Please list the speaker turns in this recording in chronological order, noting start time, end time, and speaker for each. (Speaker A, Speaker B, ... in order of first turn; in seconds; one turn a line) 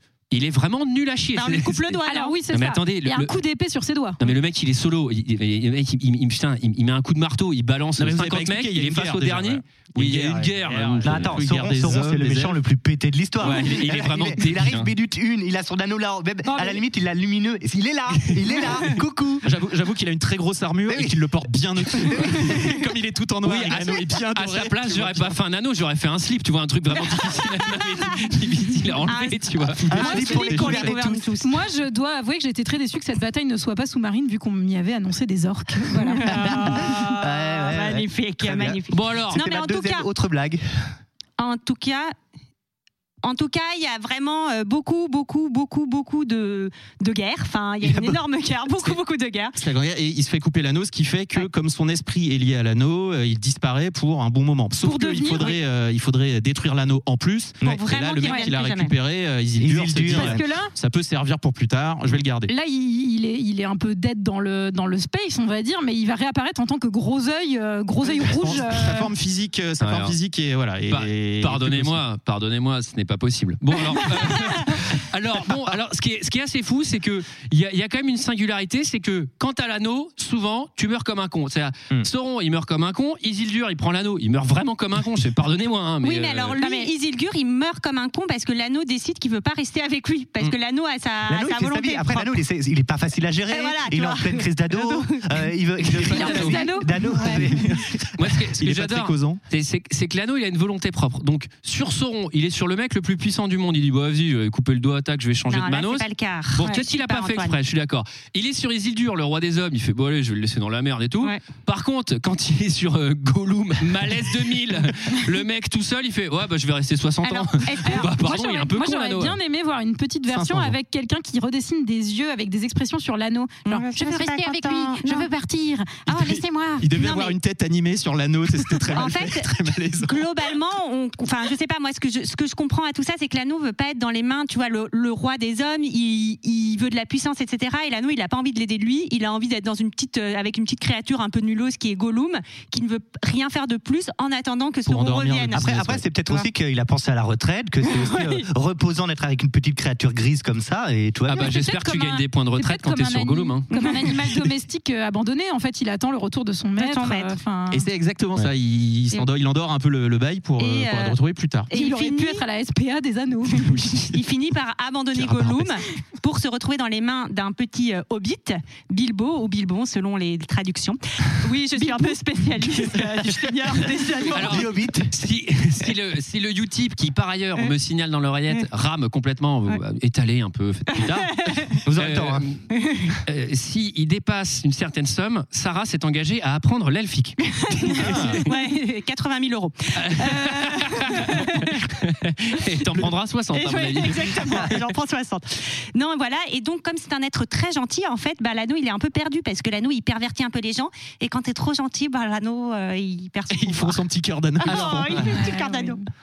Speaker A: 0.3-3.4
Speaker B: 1.4-2.4
Speaker C: 2.1-4.2
Speaker A: 4.2-11.4
Speaker D: 8.0-12.6
Speaker E: 11.0-19.5
Speaker A: 13.4-14.9
Speaker D: 19.4-25.4
Speaker E: 20.9-21.2
Speaker E: 21.8-22.7
Speaker A: 23.4-29.9
Speaker B: 29.1-31.6
Speaker D: 29.8-31.0
Speaker E: 29.9-31.3
Speaker C: 31.4-36.8
Speaker B: 35.9-40.1
Speaker E: 36.3-40.9
Speaker A: 38.9-39.5
Speaker B: 41.4-42.1
Speaker B: 43.2-49.6
Speaker E: 47.8-48.2
Speaker D: 49.5-62.5
Speaker C: 54.8-55.6
Speaker B: 57.6-58.9
Speaker C: 58.2-58.5
Speaker E: 59.6-60.4
Speaker C: 60.1-60.7
Speaker C: 62.5-69.1
Speaker D: 68.1-72.0
Speaker A: 70.9-86.6
Speaker B: 86.0-92.4
Speaker E: 91.3-98.0
Speaker B: 93.5-95.5
Speaker A: 95.8-96.7
Speaker C: 96.1-97.5
Speaker D: 97.2-99.4
Speaker A: 98.2-119.4
Speaker B: 105.5-107.6
Speaker B: 117.2-118.1
Speaker C: 117.8-126.9
Speaker D: 120.3-120.8
Speaker B: 123.7-125.3
Speaker D: 126.1-130.3
Speaker B: 127.0-127.3
Speaker B: 128.9-146.4
Speaker D: 144.9-146.1
Speaker E: 145.5-151.5
Speaker A: 151.3-153.7
Speaker C: 151.4-157.9
Speaker B: 153.7-154.2
Speaker B: 156.8-157.4
Speaker D: 157.7-161.7
Speaker B: 160.6-161.2
Speaker B: 161.7-162.4
Speaker C: 161.7-163.9
Speaker B: 164.1-174.7
Speaker D: 165.1-165.7
Speaker C: 171.8-172.2
Speaker A: 174.3-182.7
Speaker E: 174.4-175.1
Speaker B: 181.4-181.7
Speaker E: 181.8-182.5
Speaker B: 182.8-183.2
Speaker A: 183.2-188.5
Speaker B: 187.6-191.7
Speaker D: 187.9-188.4
Speaker A: 189.9-194.8
Speaker B: 193.5-204.0
Speaker D: 203.5-205.3
Speaker B: 204.6-206.0
Speaker C: 204.7-206.0